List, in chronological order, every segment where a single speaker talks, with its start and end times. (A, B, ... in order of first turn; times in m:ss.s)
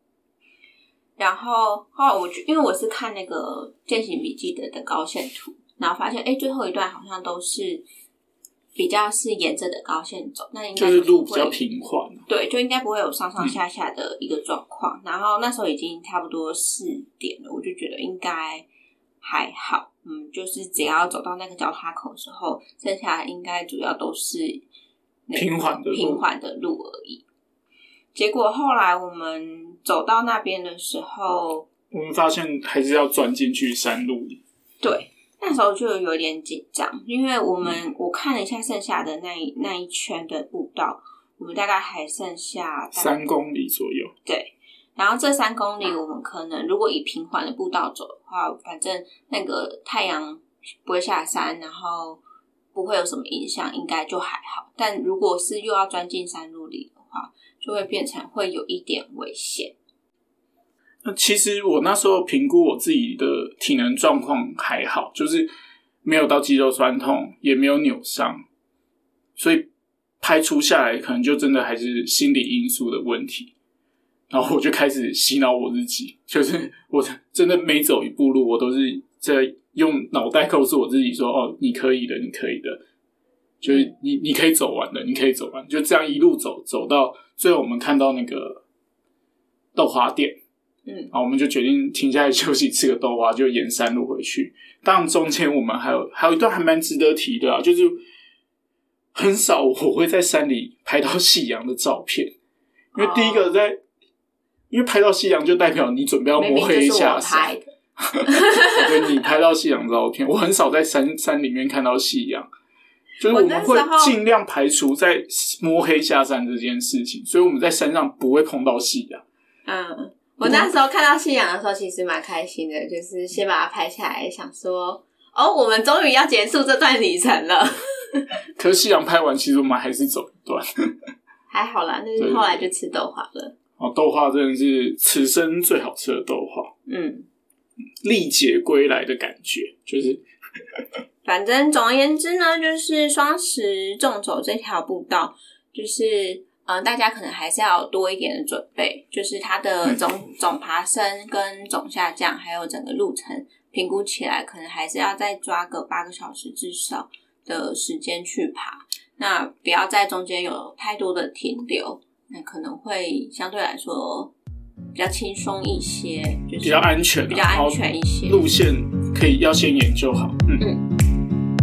0:01.2-0:07.8 A
0:08.8-0:11.6 A
0:10.8-0:12.2 B
0:12.3-0:18.6 A
0:19.2-0:24.6 A
0:25.3-0:27.2 A
0:25.3-0:26.2 B
0:28.1-0:31.7 A
0:31.9-0:34.4 B
0:34.8-0:43.2 A
0:42.9-0:44.1 B
0:44.2-0:52.2 A
0:52.7-0:59.7 A
1:01.0-1:05.5 B
1:06.0-1:08.4 B
1:09.4-1:09.7 B
1:10.2-1:13.5 B
1:14.3-1:22.8 B
1:23.6-1:28.6 B
1:29.7-1:30.4 B
1:30.9-1:31.1 A
1:31.1-1:38.0 B
1:39.1-1:42.3 B
1:42.9-1:43.8 B
1:43.0-1:43.6 A
1:44.7-1:52.5 B
1:46.4-1:47.7 A
1:48.3-1:49.1 A
1:53.2-1:59.2 B
1:53.2-1:54.2 A
1:59.6-2:08.4 A
2:00.4-2:00.7 B
2:08.6-2:10.6 B
2:11.5-2:13.5 A
2:12.2-2:12.7 B
2:13.8-2:16.7 B
2:16.9-2:17.3 A
2:18.0-2:20.2 B
2:21.2-2:44.3 A
2:44.9-2:48.5 A
2:46.6-2:50.6 B
2:50.6-2:50.8 A